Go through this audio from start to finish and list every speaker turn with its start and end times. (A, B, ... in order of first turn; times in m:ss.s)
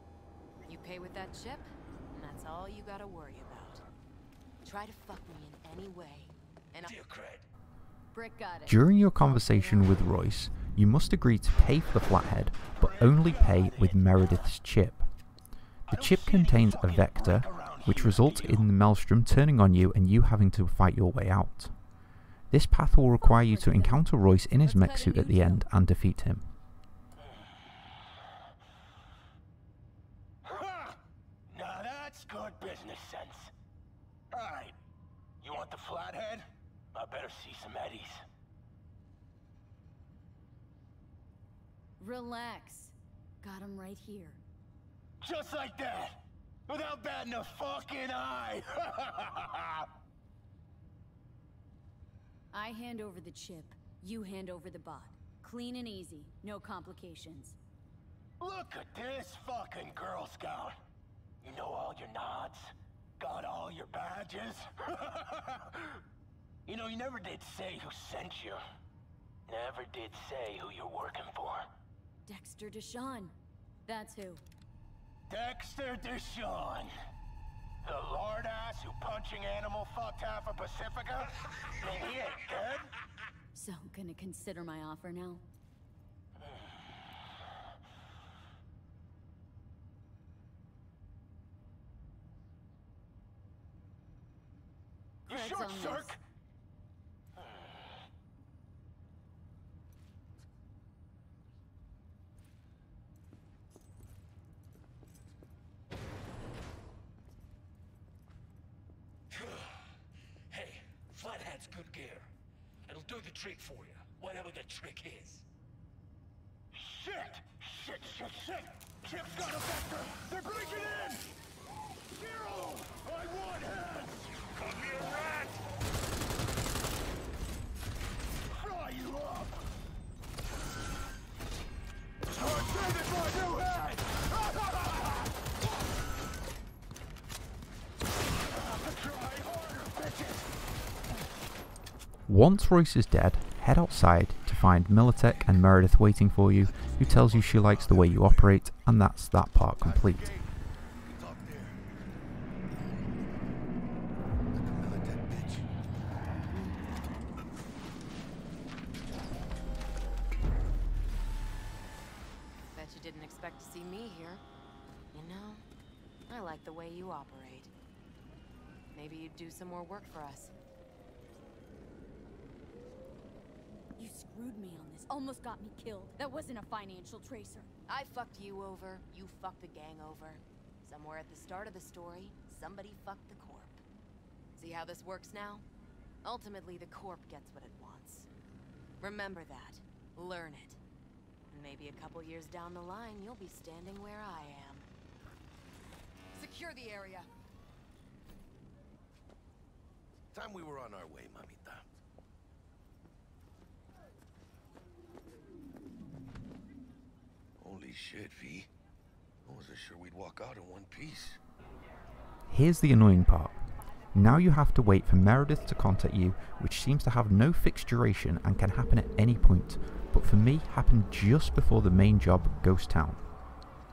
0:00.7-0:03.8 A
0:04.6-0:07.0 A
0:06.8-0:07.5 B
0:08.1-0:10.1 C
0:08.7-0:15.1 D
0:12.8-0:14.0 E
0:15.9-0:18.4 E
0:15.9-0:21.8 D
0:22.5-0:26.5 D
0:23.2-0:25.7 C
0:30.4-0:31.0 E
0:31.5-0:33.5 E
0:34.3-0:34.7 E
0:35.4-0:38.2 E
0:42.0-0:44.4 C
0:45.2-0:49.9 E
0:52.5-0:57.6 C
0:58.4-1:00.8 E
1:01.4-1:05.8 E
1:06.7-1:08.6 E
1:09.5-1:11.7 E
1:12.3-1:14.4 C
1:15.3-1:16.9 E
1:17.8-1:22.9 E
1:23.5-1:25.4 C
1:35.3-1:36.2 E
1:35.3-1:36.2 C
1:49.3-1:49.7 B
1:50.5-1:52.3 B
1:52.9-1:55.4 B
1:56.7-2:01.3 E
2:02.1-2:04.4 E
2:04.5-2:05.6 B
2:08.5-2:09.6 E
2:12.3-2:14.6 E
2:18.5-2:20.5 E
2:22.3-2:30.3 D
2:26.9-2:27.3 E
2:27.4-2:28.4 F
2:29.8-2:30.5 F
2:31.0-2:31.8 F
2:34.6-2:35.7 F
2:42.7-2:44.4 A
2:45.1-2:45.6 A
2:46.3-2:47.7 A
2:48.9-2:50.5 A
2:54.0-2:57.7 C
2:57.9-3:03.8 A
3:04.6-3:05.6 A
3:06.2-3:08.3 A
3:09.0-3:10.8 A
3:11.5-3:14.9 A
3:16.4-3:17.3 A
3:20.3-3:21.8 F
3:27.6-3:28.7 F
3:29.5-3:31.4 F
3:32.5-3:33.6 D
3:34.1-3:43.2 D